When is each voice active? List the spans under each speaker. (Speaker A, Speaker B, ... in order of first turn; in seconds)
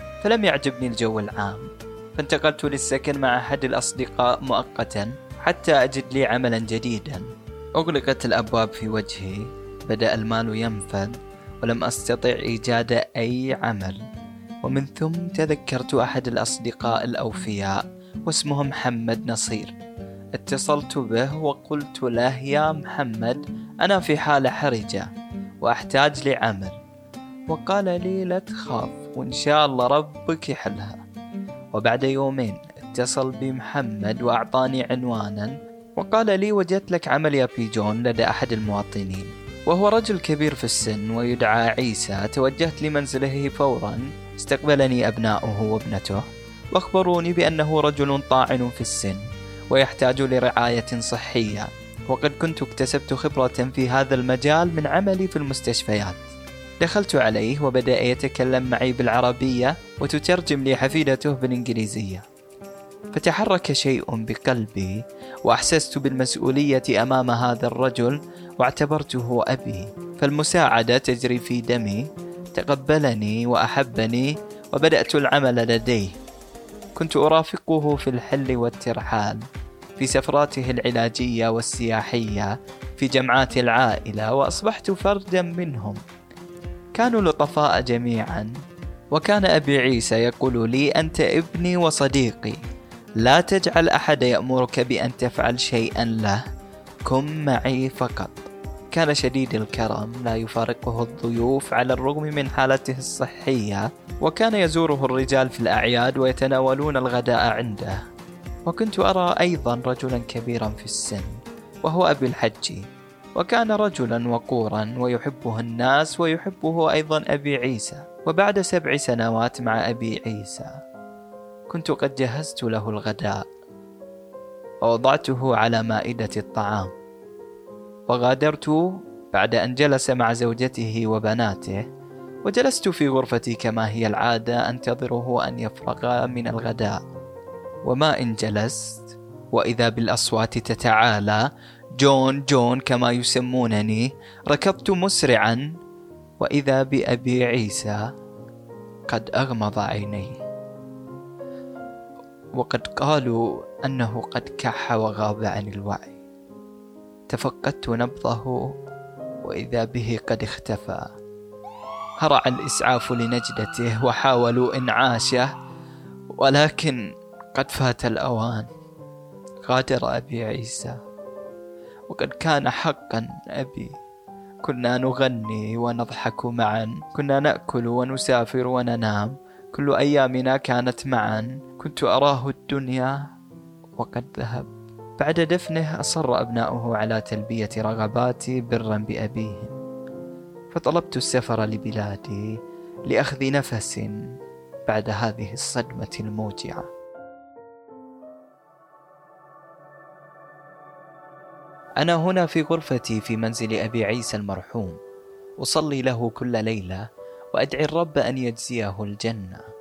Speaker A: 0.2-7.2, 7.8-14.0, 14.6-19.7, 20.4-25.1, 25.6-26.8, 27.5-31.0, 31.7-62.2, 63.1-65.0, 65.5-76.2, 77.0-79.4, 80.0-86.0, 87.0-88.5, 89.1-92.6, 93.2-96.4, 97.1-98.4, 98.9-108.0, 108.7-111.3, 111.8-112.8, 113.4-120.7, 121.7-123.4, 124.8-126.9, 128.1-131.8, 132.4-137.0, 137.9-141.4, 142.0-145.7, 146.4-148.0, 149.1-150.4, 152.6-156.2, 157.3-158.7, 159.4-161.1, 162.2-165.5, 166.4-167.0, 167.5-168.7, 169.7-171.0, 172.1-174.0, 174.6-183.2, 184.0-189.8, 190.7-192.5, 193.1-194.2, 194.9-196.9, 202.0-205.0, 205.6-209.7